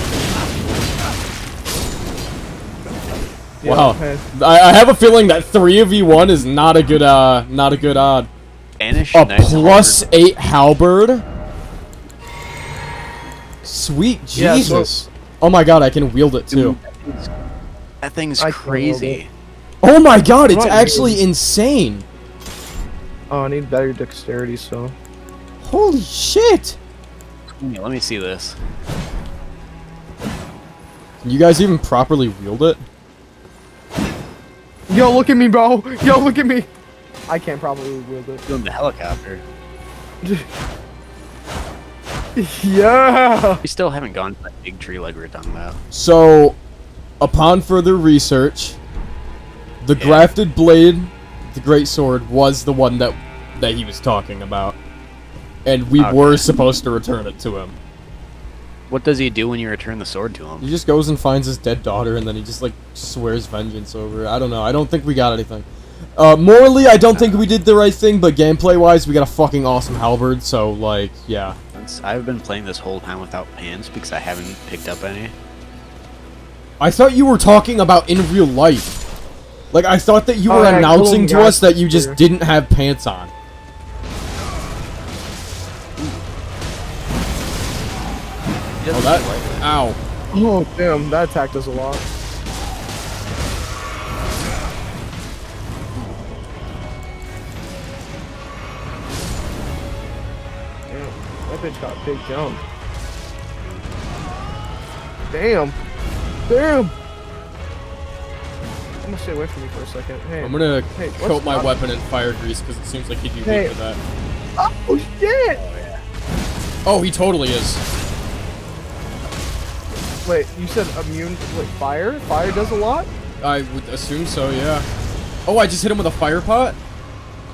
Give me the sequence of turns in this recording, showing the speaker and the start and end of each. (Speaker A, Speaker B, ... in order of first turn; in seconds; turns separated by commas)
Speaker A: 3.6-4.2, Speaker B: 3.6-8.3, Speaker C: 8.8-10.1, Speaker B: 9.1-11.2, Speaker B: 13.6-16.8, Speaker A: 14.3-15.0, Speaker C: 16.5-17.3, Speaker C: 18.0-19.3, Speaker A: 18.4-19.2, Speaker B: 19.8-22.0, Speaker A: 20.5-21.2, Speaker A: 23.3-24.9, Speaker B: 25.6-26.8, Speaker C: 27.5-28.6, Speaker B: 31.2-32.8, Speaker A: 34.9-36.7, Speaker A: 37.3-38.4, Speaker C: 38.5-39.4, Speaker A: 42.4-43.6, Speaker C: 43.6-45.8, Speaker B: 45.9-46.6, Speaker B: 47.2-48.8, Speaker B: 49.8-54.8, Speaker C: 50.0-50.3, Speaker B: 55.6-57.8, Speaker C: 56.0-56.4, Speaker C: 58.9-60.7, Speaker B: 60.6-71.6, Speaker C: 67.1-67.4, Speaker C: 71.7-75.3, Speaker B: 76.8-78.9, Speaker B: 79.7-83.3, Speaker A: 80.5-82.2, Speaker C: 88.8-89.7, Speaker B: 88.9-90.0, Speaker A: 90.3-92.0, Speaker A: 100.9-102.6, Speaker A: 105.3-105.8, Speaker A: 106.5-106.9, Speaker A: 109.0-111.7, Speaker B: 110.4-114.0, Speaker A: 113.4-113.7, Speaker A: 114.6-115.6, Speaker C: 115.5-116.0, Speaker B: 116.8-117.8, Speaker A: 120.2-123.1, Speaker B: 123.4-124.9, Speaker B: 125.5-126.8